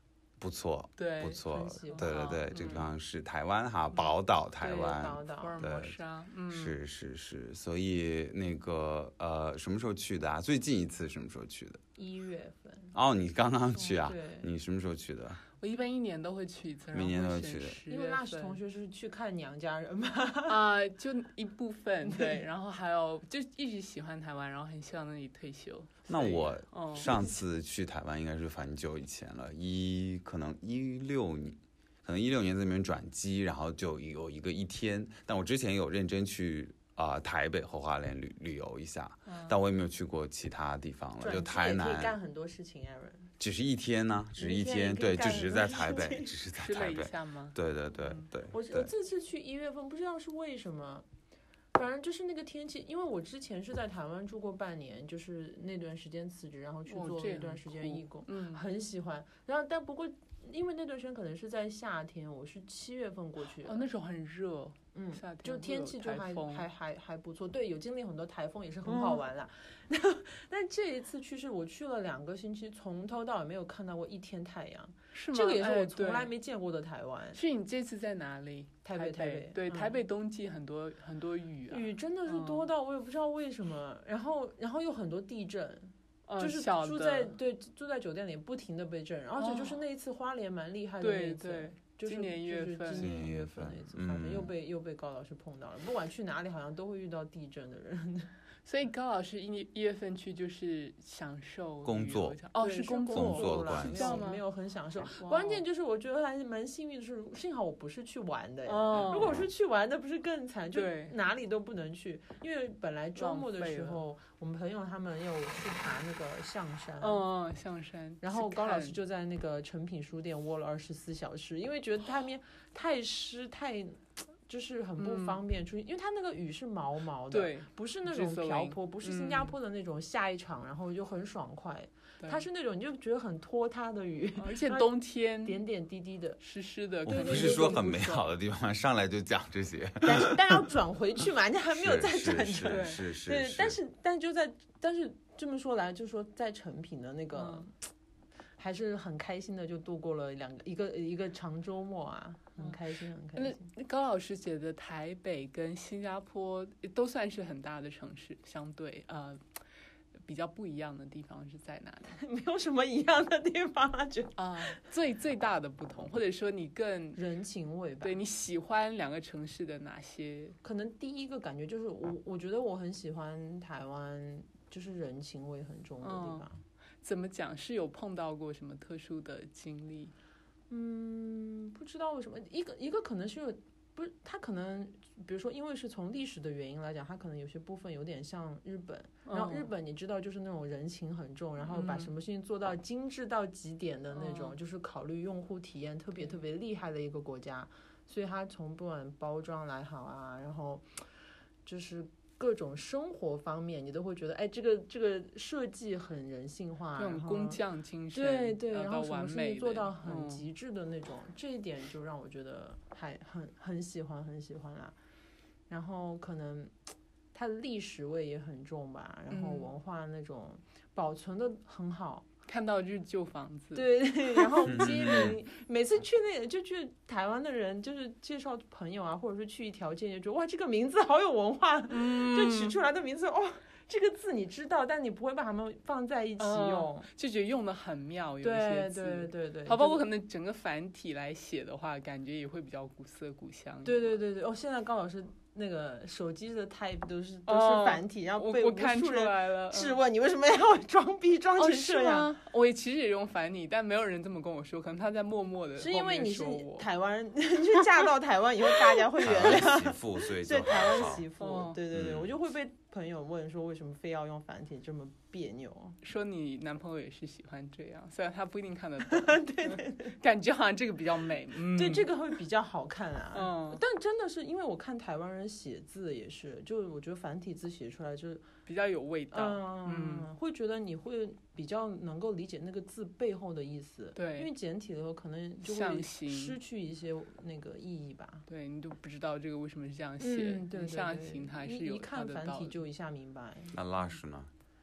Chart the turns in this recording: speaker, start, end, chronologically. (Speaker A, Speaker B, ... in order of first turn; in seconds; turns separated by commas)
Speaker A: 0.4-6.0, Speaker B: 1.0-2.9, Speaker C: 1.4-2.1, Speaker B: 4.6-6.8, Speaker C: 4.7-5.6, Speaker A: 6.5-11.8, Speaker C: 12.0-12.9, Speaker A: 12.9-15.4, Speaker C: 13.8-14.5, Speaker B: 15.6-18.6, Speaker A: 16.9-17.8, Speaker C: 17.9-20.6, Speaker B: 20.5-27.1, Speaker C: 22.0-22.4, Speaker A: 26.1-42.2, Speaker B: 39.3-39.6, Speaker C: 41.2-43.3, Speaker A: 43.4-48.9, Speaker C: 44.4-46.3, Speaker B: 46.5-48.3, Speaker C: 48.5-51.1, Speaker C: 51.7-63.9, Speaker B: 56.9-58.6, Speaker B: 63.6-66.7, Speaker C: 64.9-77.4, Speaker B: 68.8-69.2, Speaker B: 75.1-76.3, Speaker B: 77.3-82.7, Speaker C: 78.8-80.0, Speaker C: 81.7-98.3, Speaker B: 86.3-87.3, Speaker B: 89.4-89.8, Speaker B: 91.0-93.1, Speaker A: 92.9-94.5, Speaker B: 98.7-104.4, Speaker A: 101.8-102.4, Speaker C: 102.6-117.2, Speaker A: 103.1-104.2, Speaker B: 105.0-105.6, Speaker B: 108.7-109.4, Speaker B: 110.7-111.1, Speaker B: 113.2-114.0, Speaker B: 117.0-119.0, Speaker C: 118.2-134.9, Speaker B: 125.0-125.4, Speaker B: 127.3-129.5, Speaker B: 132.2-132.4, Speaker B: 134.4-135.6, Speaker C: 135.4-136.4, Speaker B: 136.4-138.3, Speaker A: 137.1-140.3, Speaker C: 137.1-137.8, Speaker C: 140.0-147.7, Speaker A: 141.7-143.8, Speaker B: 142.7-143.0, Speaker B: 147.3-147.7, Speaker C: 148.6-153.7, Speaker B: 153.4-159.4, Speaker B: 160.2-162.2, Speaker C: 162.0-164.8, Speaker B: 164.4-167.2, Speaker C: 167.2-168.2, Speaker B: 168.0-170.6, Speaker C: 170.6-176.6, Speaker B: 176.0-176.5, Speaker B: 177.0-180.1, Speaker C: 180.7-201.0, Speaker B: 189.3-189.7, Speaker B: 191.6-192.1, Speaker B: 194.1-194.6, Speaker C: 201.7-207.6, Speaker B: 207.0-210.4, Speaker C: 208.1-214.9, Speaker C: 215.7-216.7, Speaker C: 217.3-222.3, Speaker B: 219.3-219.7, Speaker B: 222.5-225.3, Speaker C: 223.7-237.1, Speaker A: 224.7-225.4, Speaker B: 231.9-232.8, Speaker B: 236.4-244.1, Speaker C: 238.4-240.0, Speaker C: 243.8-252.3, Speaker B: 247.5-250.0, Speaker B: 251.6-256.9, Speaker C: 255.8-266.0, Speaker A: 259.2-261.3, Speaker B: 261.4-261.8, Speaker A: 261.9-262.3, Speaker B: 266.0-272.1, Speaker C: 269.1-270.1, Speaker C: 271.6-278.5, Speaker B: 273.3-273.8, Speaker B: 278.7-280.3, Speaker C: 279.3-288.4, Speaker B: 284.2-284.5, Speaker B: 285.6-286.6, Speaker B: 288.5-292.8, Speaker C: 290.2-293.8, Speaker A: 293.7-294.5